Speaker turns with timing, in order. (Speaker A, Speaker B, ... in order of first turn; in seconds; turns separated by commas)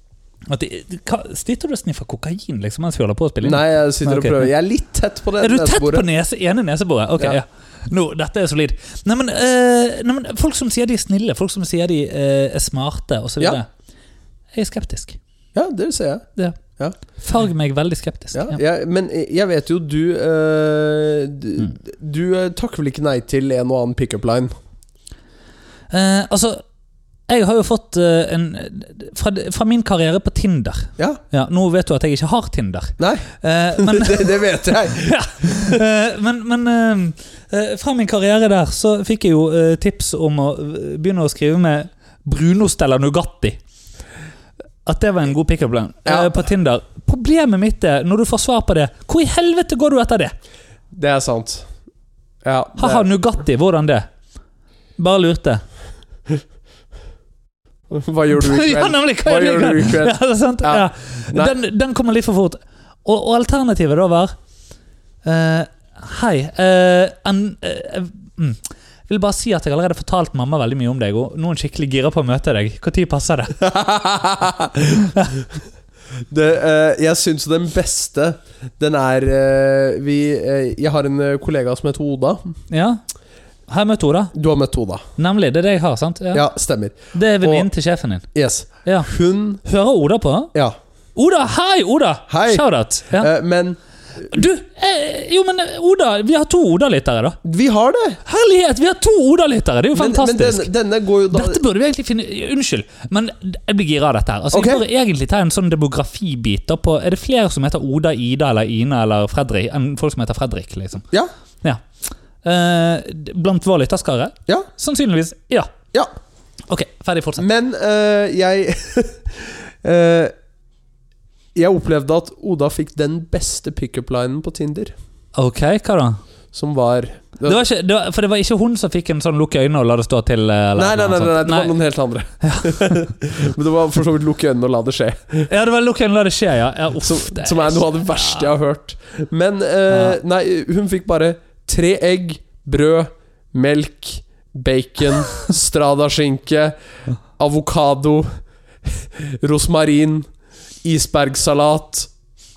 Speaker A: 0.5-4.5, Speaker B: 3.4-6.0, Speaker A: 5.4-13.7, Speaker A: 14.5-15.2, Speaker B: 15.5-16.2, Speaker A: 17.1-18.6, Speaker B: 18.3-24.5, Speaker A: 25.9-26.6, Speaker A: 27.3-43.6, Speaker B: 33.0-35.8, Speaker A: 44.8-50.3, Speaker B: 46.0-46.4, Speaker B: 50.9-51.7, Speaker B: 52.4-53.1, Speaker A: 52.8-54.1, Speaker A: 55.0-55.6, Speaker B: 57.9-61.5, Speaker A: 58.3-64.3, Speaker A: 65.2-73.5, Speaker B: 73.6-75.1, Speaker B: 76.3-82.4, Speaker A: 82.7-83.0, Speaker A: 83.7-84.3, Speaker B: 84.3-85.0, Speaker A: 85.2-86.5, Speaker B: 86.3-87.7, Speaker A: 87.1-88.3, Speaker B: 88.3-89.6, Speaker A: 88.8-89.1, Speaker A: 89.6-90.5, Speaker A: 91.2-93.3, Speaker B: 92.3-94.3, Speaker A: 94.3-97.4, Speaker B: 97.4-98.2, Speaker A: 98.2-100.7, Speaker B: 99.9-101.6, Speaker A: 101.3-111.0, Speaker B: 104.5-104.8, Speaker A: 112.4-115.8, Speaker A: 116.7-117.4, Speaker B: 117.4-120.3, Speaker B: 121.5-124.9, Speaker A: 125.3-126.2, Speaker B: 126.5-127.6, Speaker A: 127.5-131.7, Speaker B: 130.7-135.5, Speaker A: 132.4-133.0, Speaker A: 135.4-138.5, Speaker B: 137.0-146.7, Speaker A: 139.9-140.2, Speaker B: 147.4-148.3, Speaker B: 148.8-150.3, Speaker B: 150.8-152.1